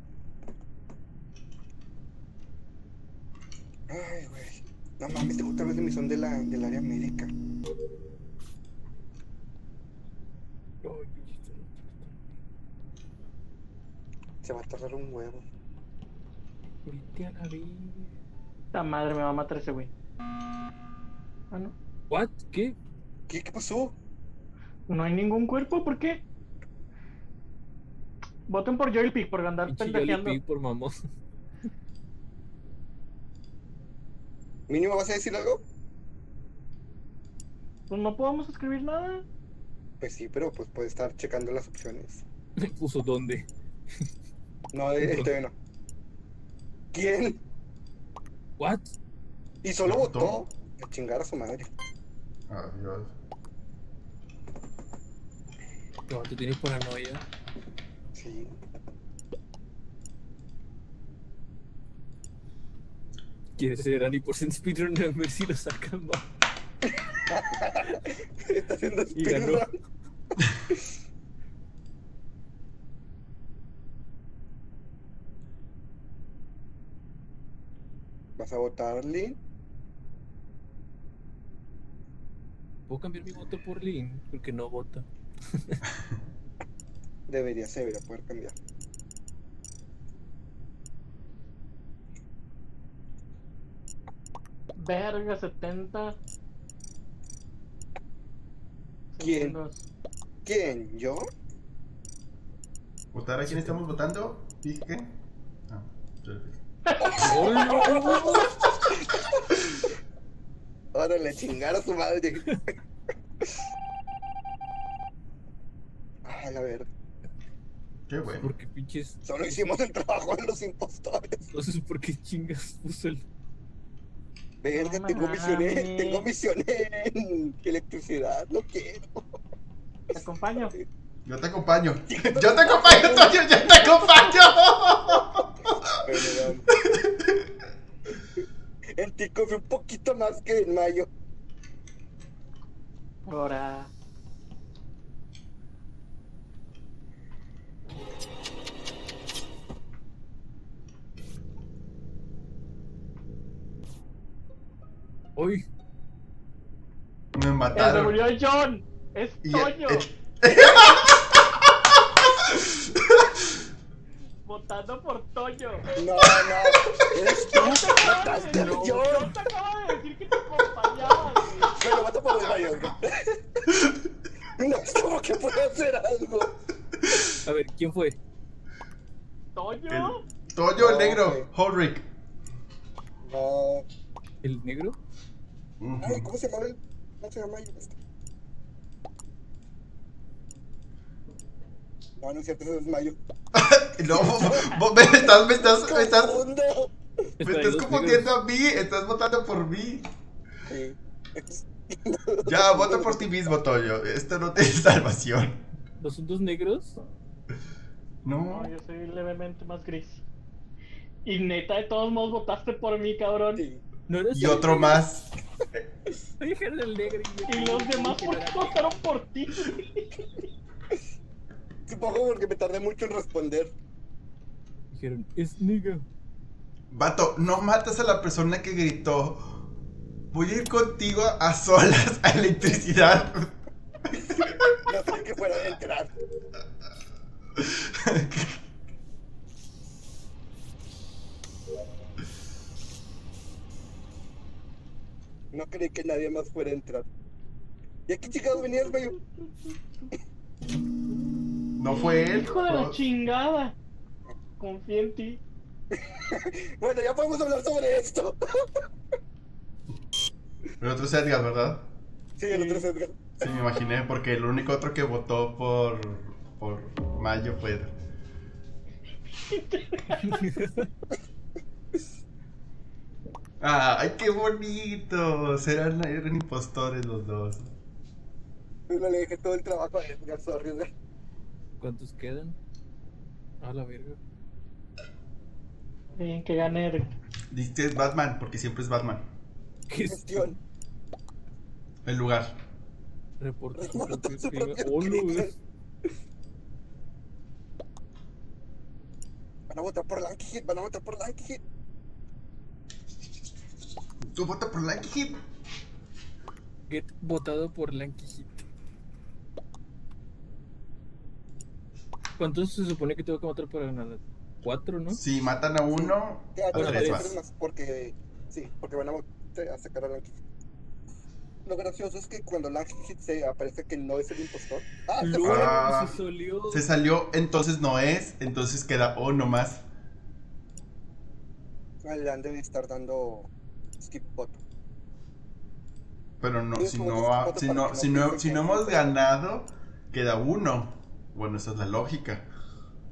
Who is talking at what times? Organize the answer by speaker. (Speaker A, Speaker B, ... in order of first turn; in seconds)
Speaker A: 3.9-7.3, 14.4-15.4, 23.3-23.9, 34.7-35.6, 40.0-42.2, 44.7-45.5, 46.9-47.4, 49.6-51.7, 58.1-58.6, 66.9-69.7, 78.4-79.4, 87.3-88.5, 99.2-99.6, 100.5-101.3, 107.0-109.8, 110.9-112.6, 116.2-116.9, 119.2-121.5, 124.6-129.3, 132.1-134.0, 136.0-136.7, 138.9-141.1, 165.9-169.3, 171.7-173.8, 174.6-176.5, 180.8-181.5, 183.2-183.8, 186.0-188.0, 192.2-193.2, 194.2-196.9, 200.7-203.3, 213.6-213.8, 221.9-223.7, 234.3-236.1, 245.5-247.1, 248.1-249.1, 255.9-258.6, 262.4-263.4, 278.9-280.9, 290.0-290.6, 293.8-295.5, 299.7-301.6, 315.9-320.4, 321.6-325.8, 332.0-334.6, 336.8-339.1
Speaker B: 10.8-12.4, 16.9-18.1, 22.1-22.8, 29.7-30.9, 42.6-43.5, 45.0-45.3, 48.6-48.9, 56.1-57.2, 63.6-66.3, 69.1-69.7, 82.9-85.8, 103.5-103.8, 107.2-108.5, 118.4-119.2, 121.5-123.2, 155.4-155.6, 168.5-169.3, 177.4-178.2, 184.4-185.0, 197.4-198.3, 206.0-207.0, 214.1-215.1, 216.4-218.9, 224.9-226.1, 270.3-270.9, 281.8-282.6, 283.6-284.2, 289.9-290.6, 293.4-295.5, 306.9-308.6, 312.4-315.2, 316.7-317.3, 325.2-326.9
Speaker C: 18.7-19.9, 24.9-26.2, 28.5-30.4, 37.9-39.3, 94.8-96.2, 99.1-99.9, 106.9-108.4, 124.7-126.3, 130.1-130.7, 143.3-143.9, 157.7-160.1, 164.4-165.9, 167.5-171.7, 179.6-180.2, 208.5-210.2, 211.2-213.6, 217.5-220.1, 248.6-250.1, 251.9-253.7, 254.6-255.4, 262.5-262.9, 269.5-270.6, 286.2-287.1
Speaker D: 49.9-50.4, 52.5-53.1, 103.1-105.1, 105.7-106.6, 118.1-118.5, 131.2-137.4, 157.3-158.2, 159.4-163.4, 166.4-166.8, 179.9-182.1, 185.8-186.3, 193.5-196.4, 197.4-200.1, 202.4-205.6, 208.2-208.7, 214.3-215.3, 226.9-229.6, 230.3-233.5, 234.4-234.7, 237.6-238.6, 251.8-253.0, 260.8-261.9, 263.4-267.9, 273.6-277.7, 287.5-289.2, 292.1-292.6, 304.2-305.4, 315.1-317.4, 325.4-326.2, 326.7-329.8, 336.4-342.5